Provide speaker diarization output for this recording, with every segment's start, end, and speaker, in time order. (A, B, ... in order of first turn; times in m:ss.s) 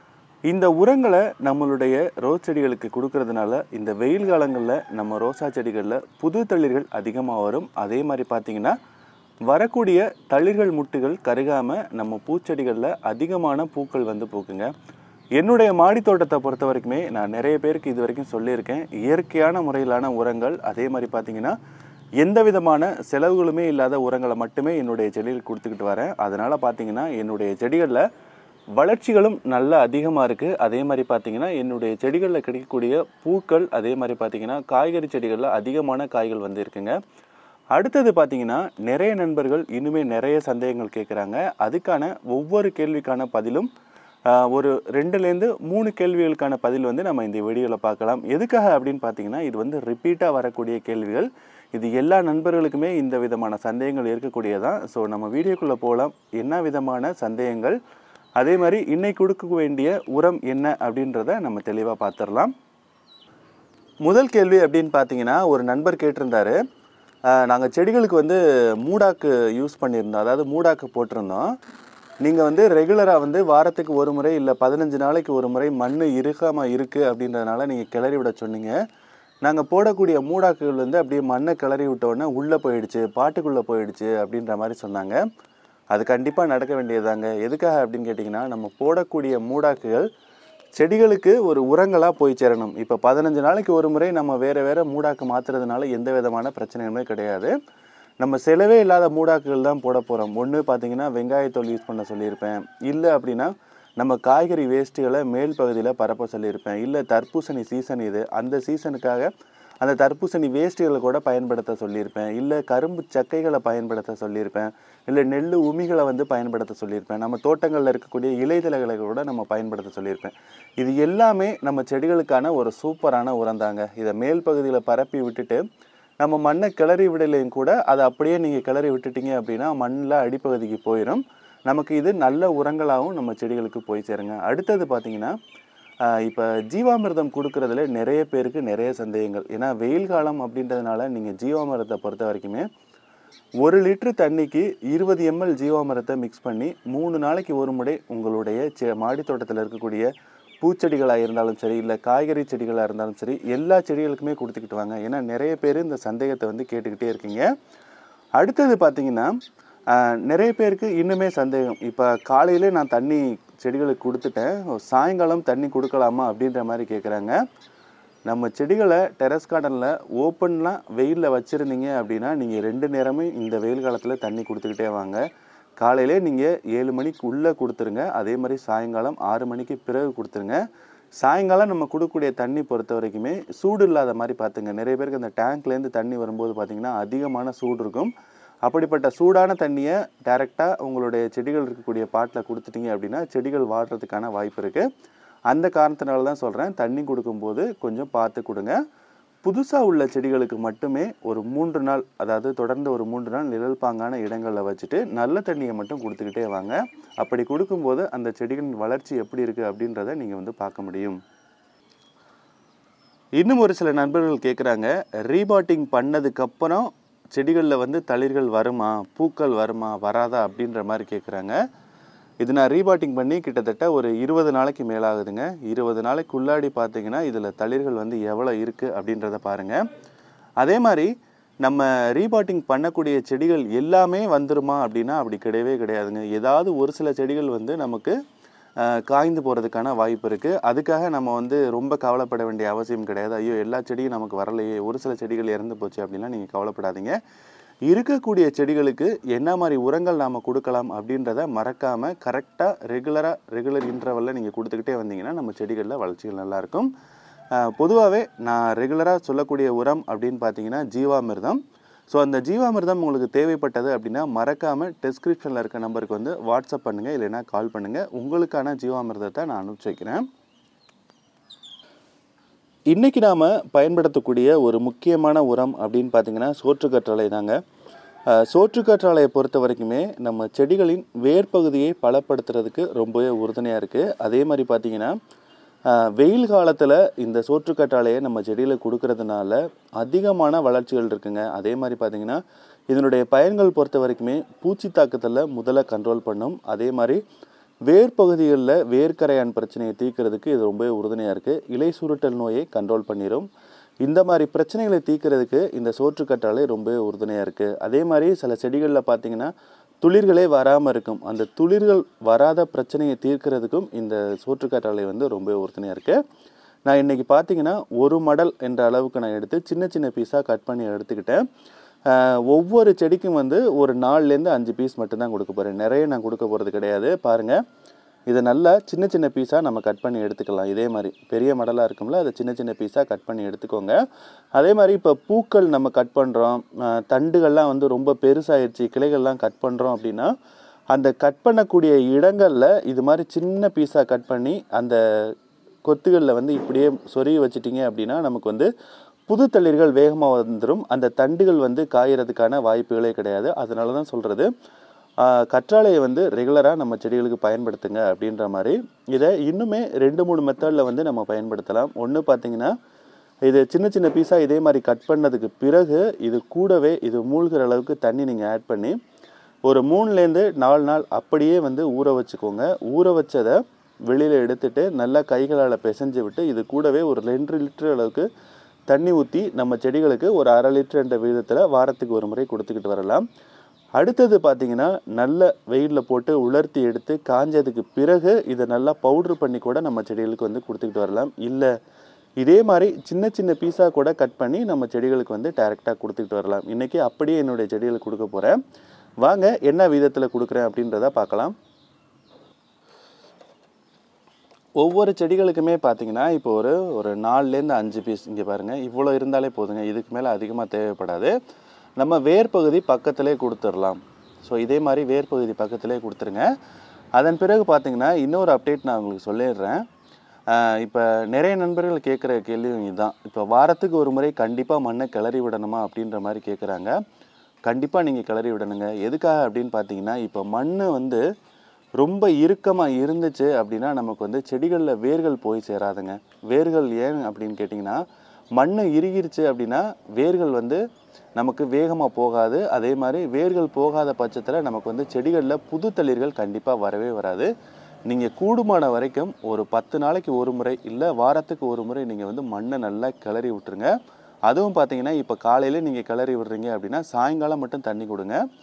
0:00.5-0:08.8 A
0:09.5-0:14.7 A
0:15.4-0:21.5 A
0:22.2-0:28.0 A
0:28.8-0:37.0 A
0:37.7-0:43.7 A
0:44.3-0:57.8 A
0:58.4-1:02.5 A
1:04.0-1:06.6 A
1:07.3-1:11.5 A
1:12.2-1:18.8 A
1:19.4-1:25.2 A
1:25.9-1:30.1 A
1:30.8-1:37.5 A
1:38.2-2:05.6 A
2:06.2-2:15.3 A
2:16.0-2:22.7 A
2:23.6-2:30.1 A
2:30.6-2:37.4 A
2:38.4-2:39.4 A
2:39.9-2:47.3 A
2:48.3-2:55.2 A
2:55.8-3:00.6 A
3:01.2-3:08.1 A
3:08.6-3:14.9 A
3:15.5-3:18.8 A
3:19.4-3:31.2 A
3:33.4-3:41.6 A
3:42.4-3:49.8 A
3:50.6-3:51.1 A
3:51.6-3:58.2 A
3:58.8-4:07.2 A
4:07.9-4:16.9 A
4:17.6-4:21.6 A
4:22.1-4:30.3 A
4:32.9-4:37.6 A
4:38.3-4:45.1 A
4:45.9-4:57.2 A
4:57.9-5:03.5 A
5:04.0-5:16.2 A
5:16.9-5:21.4 A
5:22.1-5:27.6 A
5:28.3-5:34.0 A
5:34.6-5:40.3 A
5:40.9-5:45.3 A
5:45.9-5:48.7 A
5:49.3-5:54.5 A
5:55.2-6:02.7 A
6:03.5-6:09.0 A
6:09.7-6:18.3 A
6:18.9-6:23.2 A
6:24.0-6:31.7 A
6:32.4-6:38.6 A
6:39.2-6:41.5 A
6:44.8-6:51.3 A
6:52.0-6:56.5 A
6:57.2-6:59.8 A
7:00.5-7:06.9 A
7:07.7-7:11.2 A
7:12.0-7:18.0 A
7:18.6-7:20.8 A
7:21.4-7:27.5 A
7:28.1-7:33.9 A
7:34.5-7:38.4 A